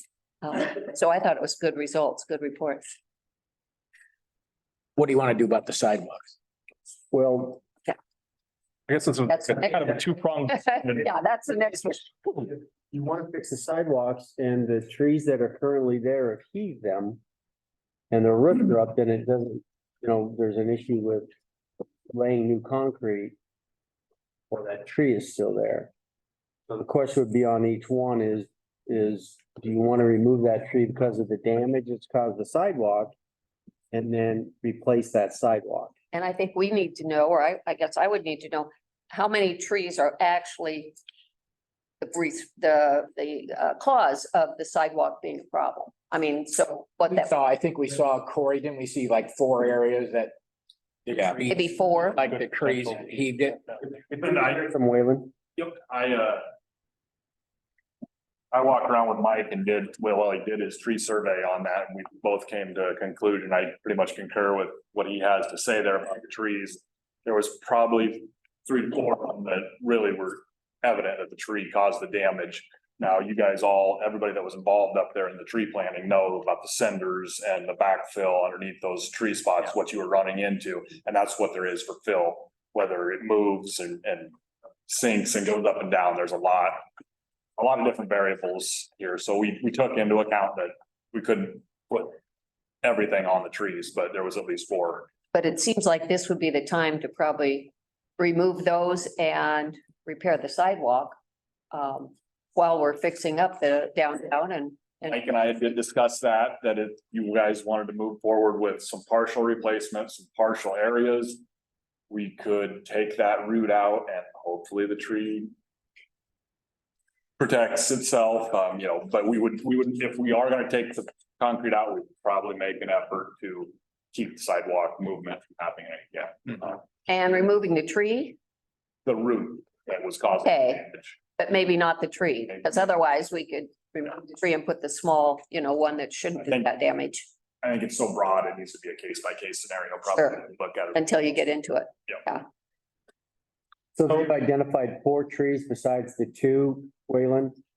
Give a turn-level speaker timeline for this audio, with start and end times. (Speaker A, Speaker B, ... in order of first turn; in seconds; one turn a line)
Speaker A: 0.4-2.9
Speaker B: 5.0-6.3
Speaker C: 7.1-7.6
Speaker D: 8.9-10.9
Speaker A: 9.3-12.5
Speaker C: 12.9-17.2
Speaker C: 18.1-21.3
Speaker C: 22.1-23.4
Speaker C: 24.5-25.9
Speaker C: 26.7-33.1
Speaker C: 33.9-35.9
Speaker A: 36.1-41.0
Speaker A: 42.0-47.4
Speaker B: 47.1-50.3
Speaker B: 51.0-53.6
Speaker A: 51.5-52.2
Speaker D: 52.0-53.8
Speaker C: 54.1-55.3
Speaker E: 55.6-56.5
Speaker E: 58.5-84.3
Speaker E: 84.9-86.8
Speaker E: 87.6-92.2
Speaker E: 92.8-95.1
Speaker A: 95.3-101.2
Speaker A: 101.7-105.3
Speaker E: 105.1-111.4
Speaker E: 112.1-115.5
Speaker E: 117.4-126.8
Speaker A: 127.1-128.4
Speaker E: 129.0-131.2
Speaker A: 130.4-137.2
Speaker E: 137.6-141.0
Speaker A: 140.1-142.4
Speaker C: 144.0-147.6